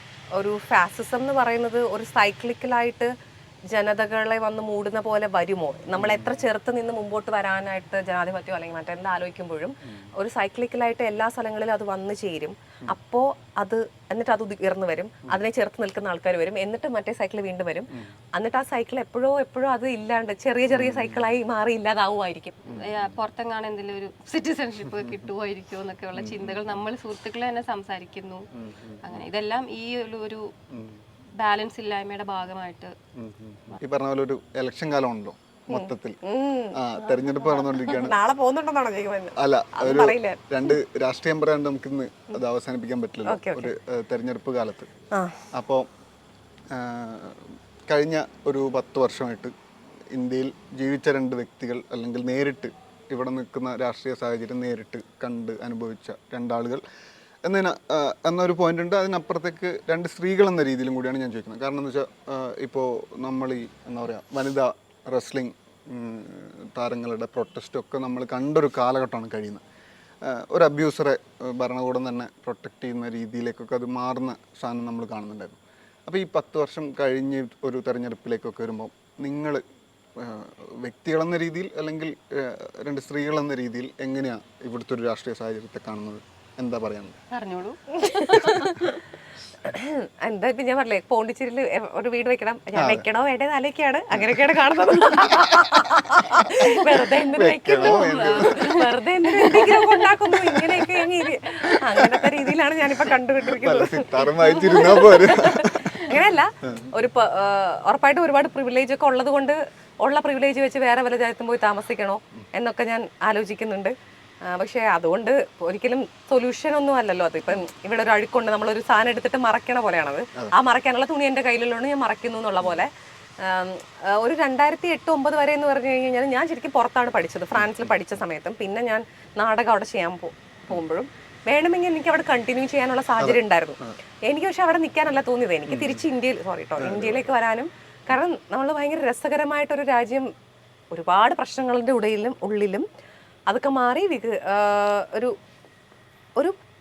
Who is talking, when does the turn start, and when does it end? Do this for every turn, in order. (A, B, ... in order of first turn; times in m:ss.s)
0:00.3-0:03.1 A
0:03.7-0:22.6 A
0:06.0-0:06.4 B
0:20.7-0:21.4 B
0:22.6-0:23.1 B
0:22.8-0:28.5 C
0:24.8-0:25.2 B
0:26.1-0:26.8 B
0:28.5-0:29.2 B
0:29.0-0:30.4 C
0:30.7-0:31.0 B
0:31.4-0:32.9 C
0:33.2-0:36.2 B
0:35.7-0:40.8 A
0:36.7-0:38.2 B
0:39.4-0:44.9 B
0:43.2-0:43.7 A
0:45.1-0:45.4 A
0:45.5-0:45.9 B
0:46.7-0:49.5 B
0:50.1-0:56.8 B
0:57.4-1:09.6 B
1:10.2-1:19.6 B
1:20.2-1:27.2 B
1:27.3-1:28.8 C
1:28.0-1:29.0 A
1:29.6-1:53.9 A
1:32.8-1:33.1 B
1:34.1-1:35.8 B
1:36.6-1:37.2 C
1:37.4-1:38.6 B
1:37.8-1:40.8 C
1:42.0-1:42.5 B
1:43.1-1:46.9 B
1:44.7-1:45.5 C
1:54.5-2:20.3 A
2:07.5-2:08.2 B
2:13.2-2:13.9 B
2:15.7-2:16.0 B
2:16.8-2:17.2 B
2:20.9-2:22.8 A
2:23.5-2:25.3 A